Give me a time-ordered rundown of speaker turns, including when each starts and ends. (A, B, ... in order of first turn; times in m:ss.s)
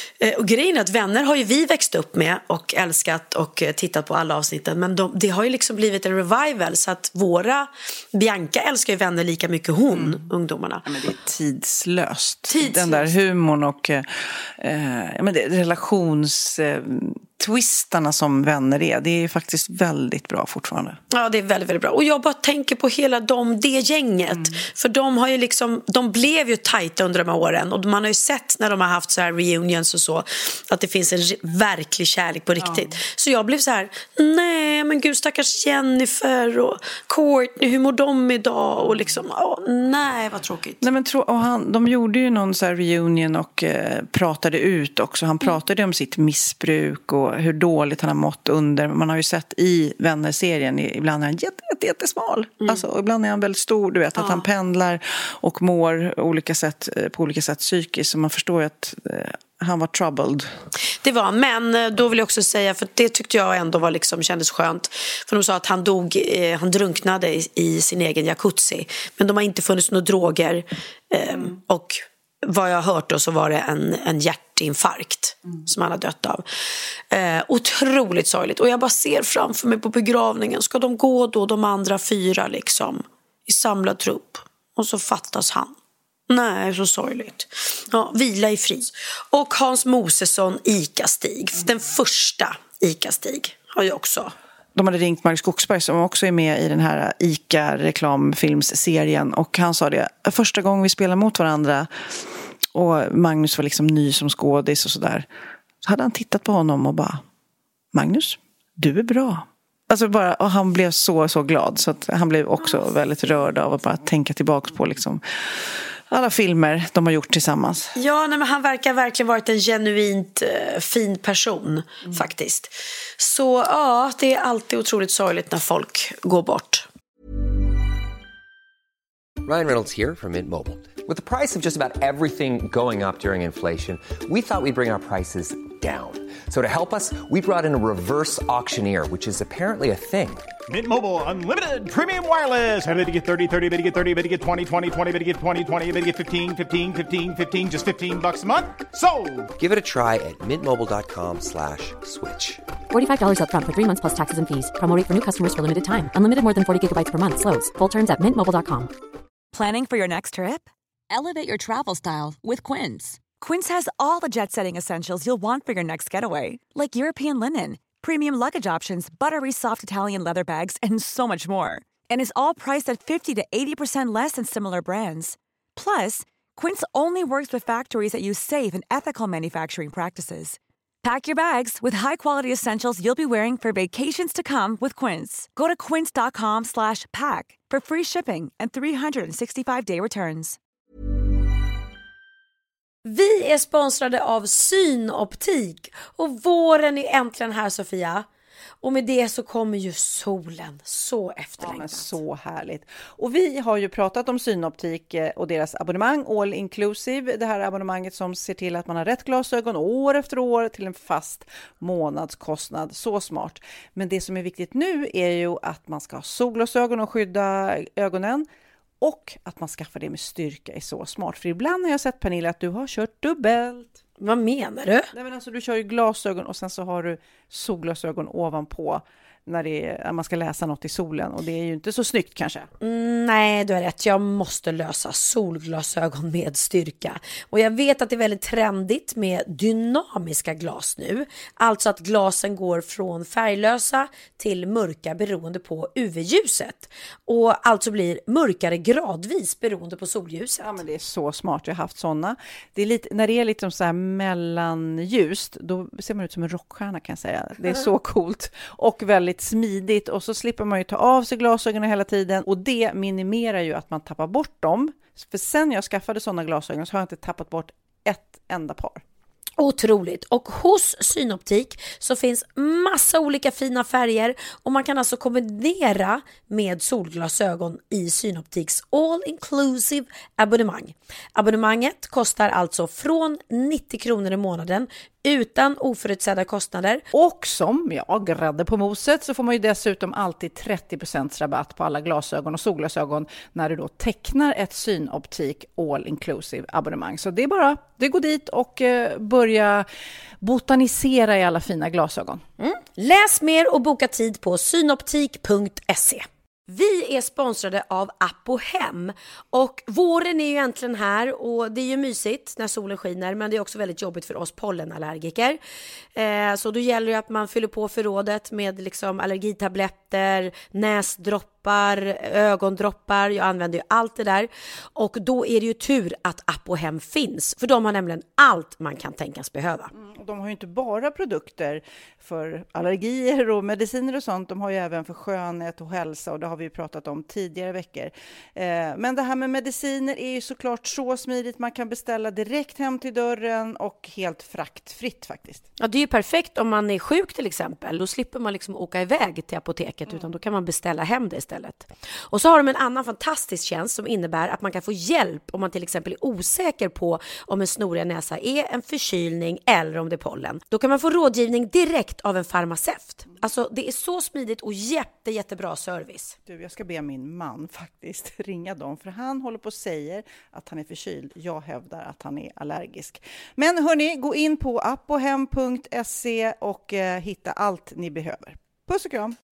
0:00.2-0:10.8 A
0:09.9-0:10.2 B
0:10.8-0:21.0 B
0:12.5-0:13.1 A
0:21.1-0:40.8 A
0:32.6-0:32.9 B
0:40.8-1:00.5 B
0:54.2-0:54.4 A
1:01.0-1:16.4 A
1:17.1-1:25.7 A
1:26.3-1:34.3 A
1:34.7-1:41.9 B
1:42.7-1:45.3 B
1:45.8-1:47.2 B
1:47.9-1:55.2 B
1:56.1-1:57.9 B
1:57.9-2:06.8 A
2:09.4-2:20.5 C
2:20.7-2:29.5 D
2:29.6-2:32.6 C
2:32.9-2:38.9 E
2:39.5-3:10.6 F
3:13.0-3:18.2 A
3:18.8-3:22.2 A
3:21.6-3:38.5 B
3:39.0-3:43.9 B
3:44.2-3:45.1 A
3:45.1-3:52.7 B
3:52.8-4:10.8 A
4:10.6-4:29.0 B
4:29.6-4:47.0 A
4:47.1-4:59.9 B
5:00.4-5:02.4 B
5:02.6-5:15.6 A
5:16.2-5:29.9 A
5:29.9-5:45.6 B
5:45.8-6:06.4 A
6:06.4-6:19.4 B